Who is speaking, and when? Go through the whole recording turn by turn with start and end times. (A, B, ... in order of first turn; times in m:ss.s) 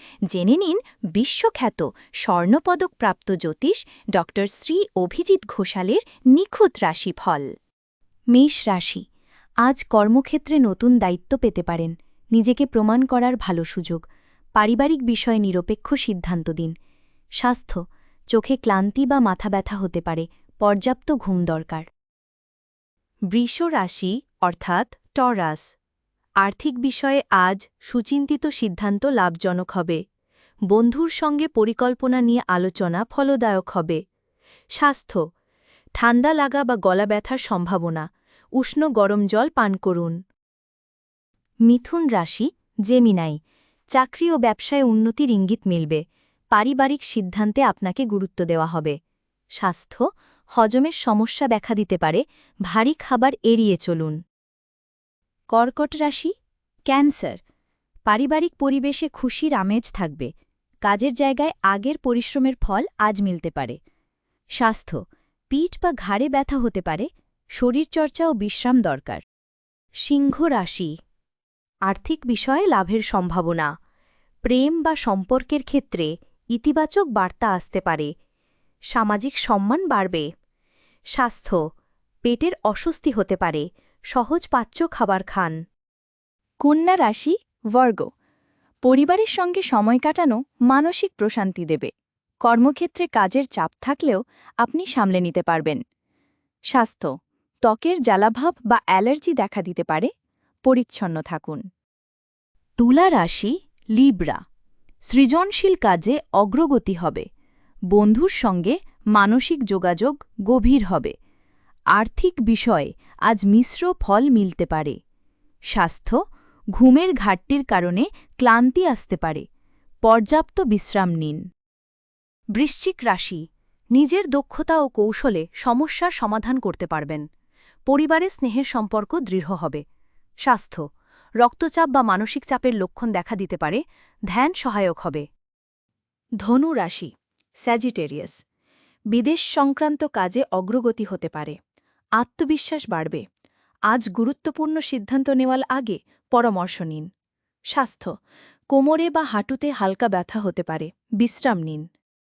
0:00.3-0:07.5 A
0:08.3-0:09.0 A
0:09.6-0:14.0 A
0:14.6-0:16.7 A
0:17.4-0:17.8 A
0:18.3-0:21.9 A
0:23.3-0:25.6 A
0:26.4-0:30.0 A
0:30.7-0:34.0 A
0:34.8-0:35.2 A
0:36.0-0:38.1 A
0:38.6-0:40.2 A
0:41.7-0:43.4 A
0:43.9-0:46.0 A
0:46.5-0:49.0 A
0:49.6-0:50.0 A
0:50.6-0:54.2 A
0:55.5-0:56.3 A
0:56.9-0:57.4 A
0:58.1-1:00.3 A
1:00.9-1:03.8 A
1:04.6-1:09.2 A
1:10.0-1:10.9 A
1:11.9-1:13.7 A
1:14.5-1:18.1 A
1:18.9-1:20.3 A
1:21.2-1:21.6 A
1:22.2-1:25.6 A
1:26.6-1:28.1 A
1:28.8-1:31.9 A
1:32.4-1:35.8 A
1:36.7-1:37.1 A
1:37.7-1:40.1 A
1:40.6-1:41.6 A
1:42.8-1:44.4 A
1:45.1-1:47.3 A
1:47.9-1:51.1 A
1:52.0-1:55.0 A
1:55.7-1:56.2 A
1:56.8-1:59.4 A
2:00.1-2:01.4 A
2:02.6-2:03.4 A
2:04.0-2:07.2 A
2:07.9-2:09.8 A
2:10.5-2:10.8 A
2:11.4-2:15.2 A
2:16.4-2:17.1 A
2:17.6-2:18.4 A
2:19.1-2:21.6 A
2:22.2-2:23.2 A
2:23.9-2:27.1 A
2:27.7-2:28.1 A
2:28.7-2:31.8 A